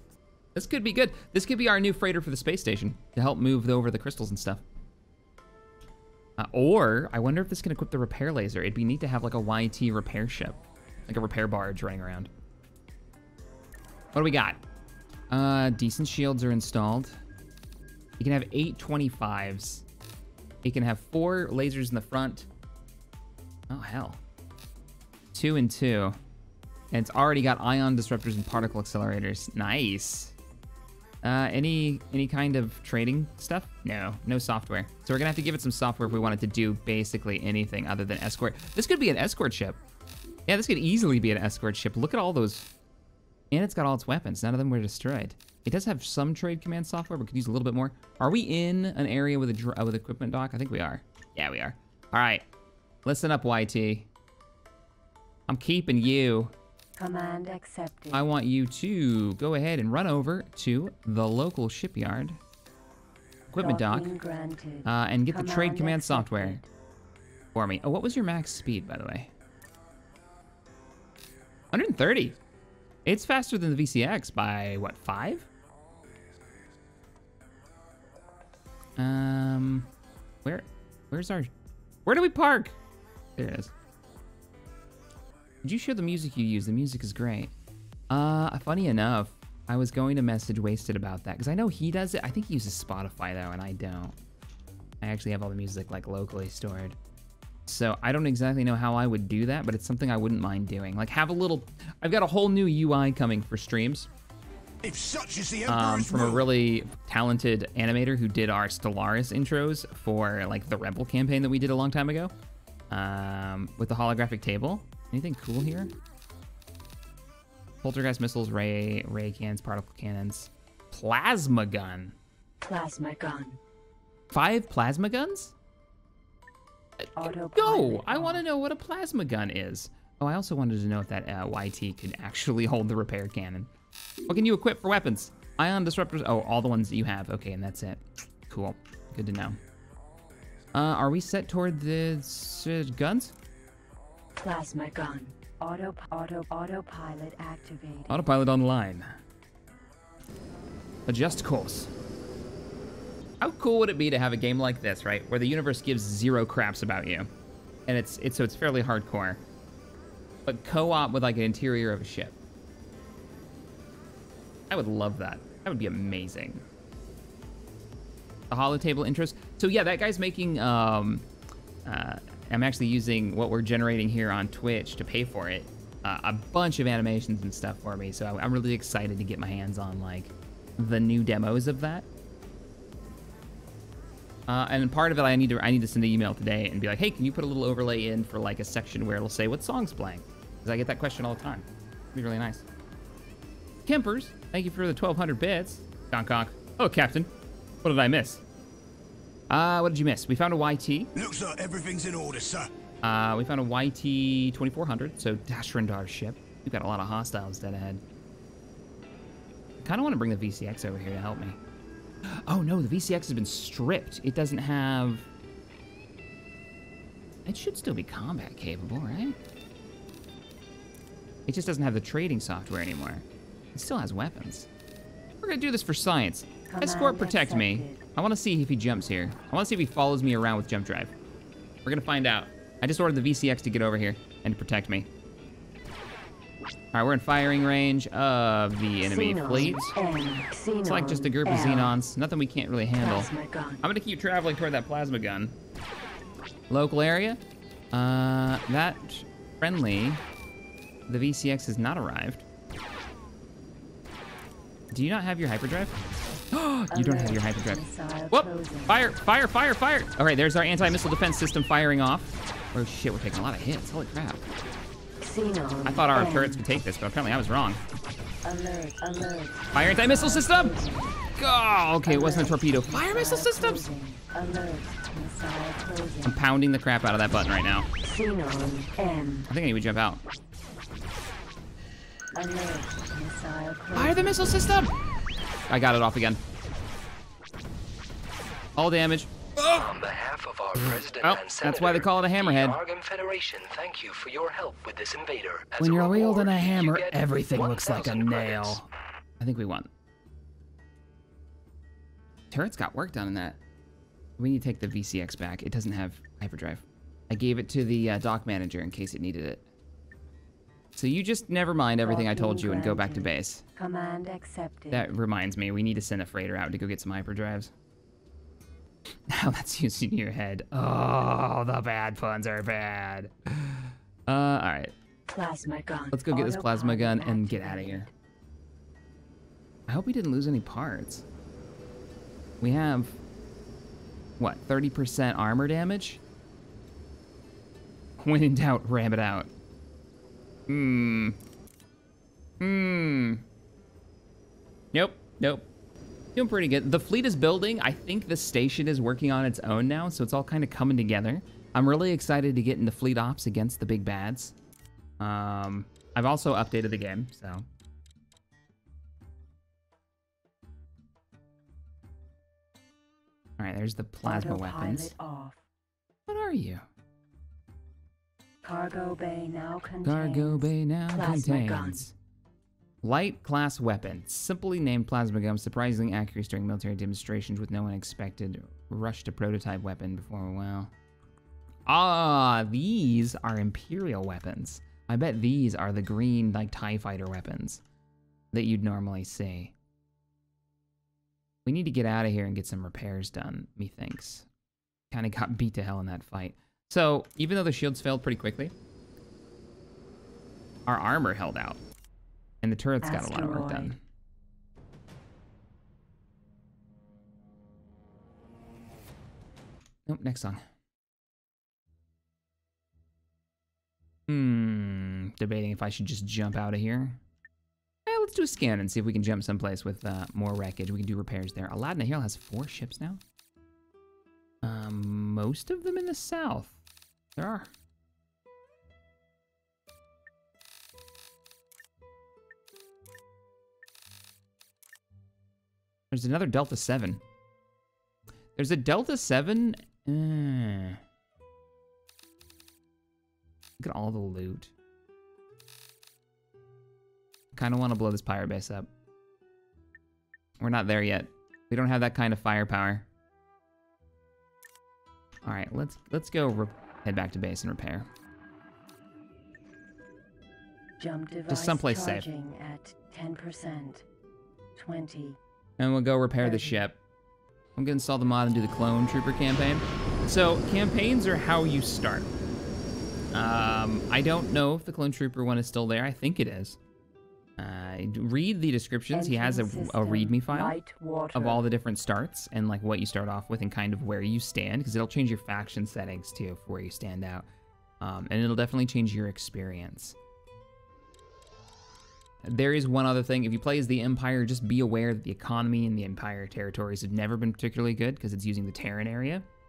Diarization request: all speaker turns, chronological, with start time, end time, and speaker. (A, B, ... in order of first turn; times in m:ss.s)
0:00.6-0:04.6 A
0:06.4-0:12.3 A
0:14.2-0:14.6 A
0:15.3-0:17.2 A
0:18.2-0:19.8 A
0:20.6-0:22.5 A
0:23.7-0:24.2 A
0:25.3-0:26.2 A
0:26.9-0:30.4 A
0:31.2-0:39.8 A
0:40.5-0:42.7 A
0:43.5-0:52.4 A
0:53.0-0:54.1 A
0:55.5-0:56.5 A
0:57.0-0:58.2 B
0:58.1-1:02.4 A
1:03.5-1:04.1 A
1:03.6-1:06.7 B
1:04.8-1:06.6 A
1:07.6-1:09.3 A
1:11.7-1:12.4 A
1:13.0-1:15.5 A
1:19.0-1:19.9 A
1:20.4-1:21.5 A
1:22.0-1:22.8 A
1:23.4-1:23.7 A
1:25.6-1:27.5 A
1:28.1-1:34.2 A
1:35.0-1:37.0 A
1:37.7-1:44.1 A
1:44.8-1:46.5 C
1:45.7-1:52.3 A
1:52.9-1:55.9 A
1:57.8-2:02.2 A
2:02.6-2:03.6 B
2:04.3-2:05.5 A
2:07.0-2:13.7 A
2:07.2-2:08.4 B
2:14.3-2:19.6 A
2:20.7-2:23.3 A
2:24.4-2:28.3 B
2:28.1-2:29.1 A
2:31.1-2:31.9 A
2:33.4-2:37.3 A
2:37.9-2:39.4 A
2:40.4-2:42.4 A
2:44.7-2:46.6 A
2:48.5-2:51.3 A
2:51.8-3:02.1 A
3:04.5-3:12.6 A
3:13.9-3:17.3 A
3:17.8-3:18.4 A
3:19.5-3:21.1 A
3:21.2-3:22.7 C
3:23.0-3:28.0 A
3:29.8-3:31.6 A
3:32.3-3:35.3 A
3:37.5-3:39.4 A
3:41.5-3:44.7 A
3:45.4-3:51.1 A
3:46.7-3:48.0 B
3:51.8-3:55.1 A
3:56.9-4:00.0 A
3:59.0-4:02.0 B
4:00.9-4:03.3 A
4:03.0-4:03.8 B
4:03.8-4:05.6 A
4:06.7-4:07.4 A
4:07.9-4:10.2 A
4:11.1-4:12.4 A
4:14.9-4:16.0 A
4:16.5-4:24.4 A
4:16.9-4:19.0 B
4:25.2-4:26.6 B
4:25.8-4:27.8 A
4:28.4-4:31.2 B
4:29.7-4:30.8 A
4:31.3-4:33.9 A
4:32.0-4:36.4 B
4:36.2-4:37.9 A
4:38.0-4:39.5 B
4:39.5-4:40.2 A
4:42.3-4:44.8 B
4:43.9-4:44.9 A
4:45.7-4:46.4 A
4:48.8-4:49.8 A
4:49.7-4:58.8 D
4:51.1-4:52.8 A
4:55.8-4:58.9 A
4:59.4-4:59.9 A
5:02.5-5:03.6 A
5:04.4-5:09.6 A
5:11.0-5:13.6 A
5:12.0-5:15.1 B
5:14.9-5:17.7 A
5:19.3-5:24.9 A
5:25.3-5:28.1 B
5:26.1-5:28.1 A
5:29.9-5:31.2 A
5:32.6-5:33.2 A
5:34.4-5:36.2 A
5:38.2-5:39.5 A
5:40.7-5:41.4 A
5:42.6-5:43.4 A
5:44.9-5:45.7 A
5:46.4-5:54.6 A
5:55.2-5:57.7 A
6:03.6-6:05.1 A
6:04.2-6:05.6 B
6:06.3-6:06.8 A
6:08.6-6:12.0 B
6:10.0-6:12.1 A
6:13.0-6:20.9 A
6:21.9-6:27.8 A
6:28.5-6:29.7 A
6:31.6-6:34.5 A
6:35.1-6:38.7 A
6:40.9-6:41.8 A
6:42.6-6:44.0 A
6:43.0-6:44.0 B
6:50.1-6:50.6 A
6:54.3-6:57.2 A
6:58.1-7:03.2 A
7:04.6-7:06.8 A
7:07.4-7:07.7 A
7:16.1-7:17.2 A
7:18.6-7:21.0 A
7:23.8-7:24.7 A
7:27.5-7:28.9 A
7:30.6-7:33.1 A
7:35.4-7:38.1 A
7:41.0-7:44.1 B
7:41.5-7:42.3 A
7:44.8-7:45.4 B
7:45.8-7:47.0 A
7:46.4-7:46.8 B
7:47.8-7:52.3 A
7:53.3-7:56.8 A
7:57.6-8:00.8 A
7:59.1-8:01.6 B
8:01.4-8:07.5 A
8:08.0-8:10.2 A
8:12.4-8:19.5 A